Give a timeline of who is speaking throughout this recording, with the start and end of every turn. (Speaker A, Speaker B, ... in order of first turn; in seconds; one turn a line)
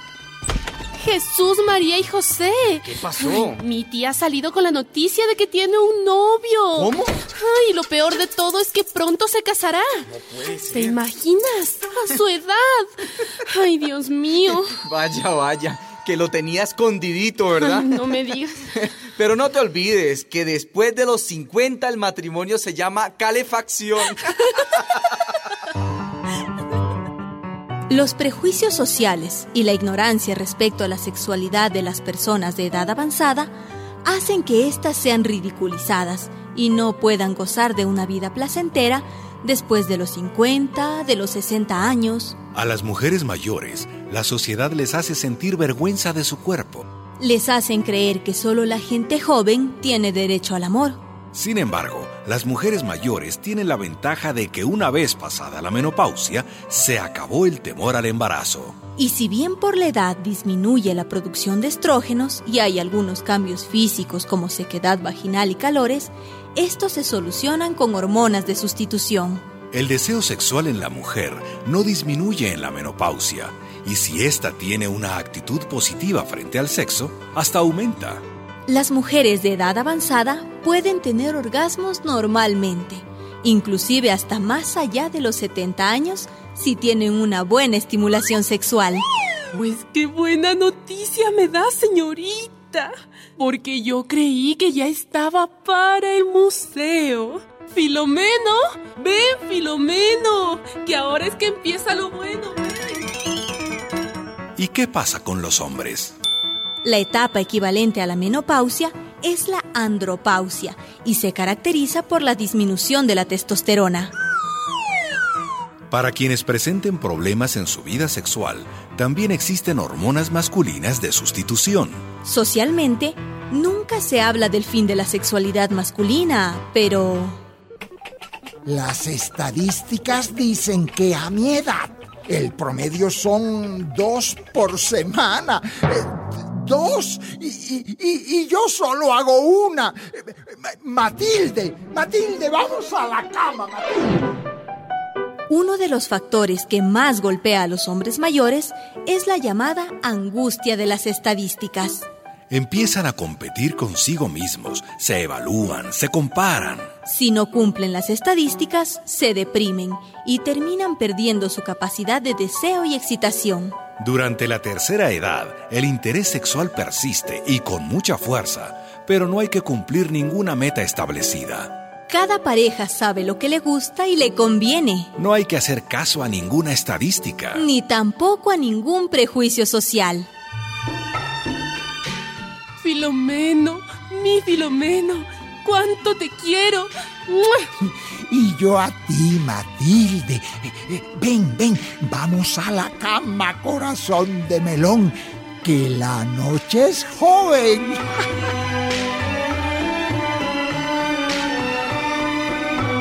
Speaker A: 1.0-10.1
Speaker B: 2.9-3.6
Speaker B: 6.7-7.2
Speaker B: 10.2-10.9
Speaker A: 10.6-14.8
Speaker B: 14.8-18.0
Speaker A: 17.6-18.8
Speaker B: 18.8-25.0
Speaker C: 27.9-33.5
Speaker C: 34.0-42.4
Speaker D: 42.5-46.9
Speaker C: 47.2-51.0
Speaker D: 51.3-58.8
Speaker C: 59.0-69.4
Speaker D: 69.7-78.2
Speaker C: 78.7-89.0
Speaker A: 89.5-103.1
Speaker D: 104.6-106.2
Speaker C: 106.8-114.1
Speaker D: 115.9-122.0
Speaker C: 122.2-127.4
Speaker E: 128.7-144.2
Speaker C: 145.5-152.1
Speaker D: 152.5-156.9
Speaker C: 157.1-163.8
Speaker D: 164.0-171.7
Speaker C: 172.1-175.1
Speaker D: 175.2-177.6
Speaker C: 177.6-180.3
Speaker A: 182.8-187.7
Speaker E: 187.8-198.0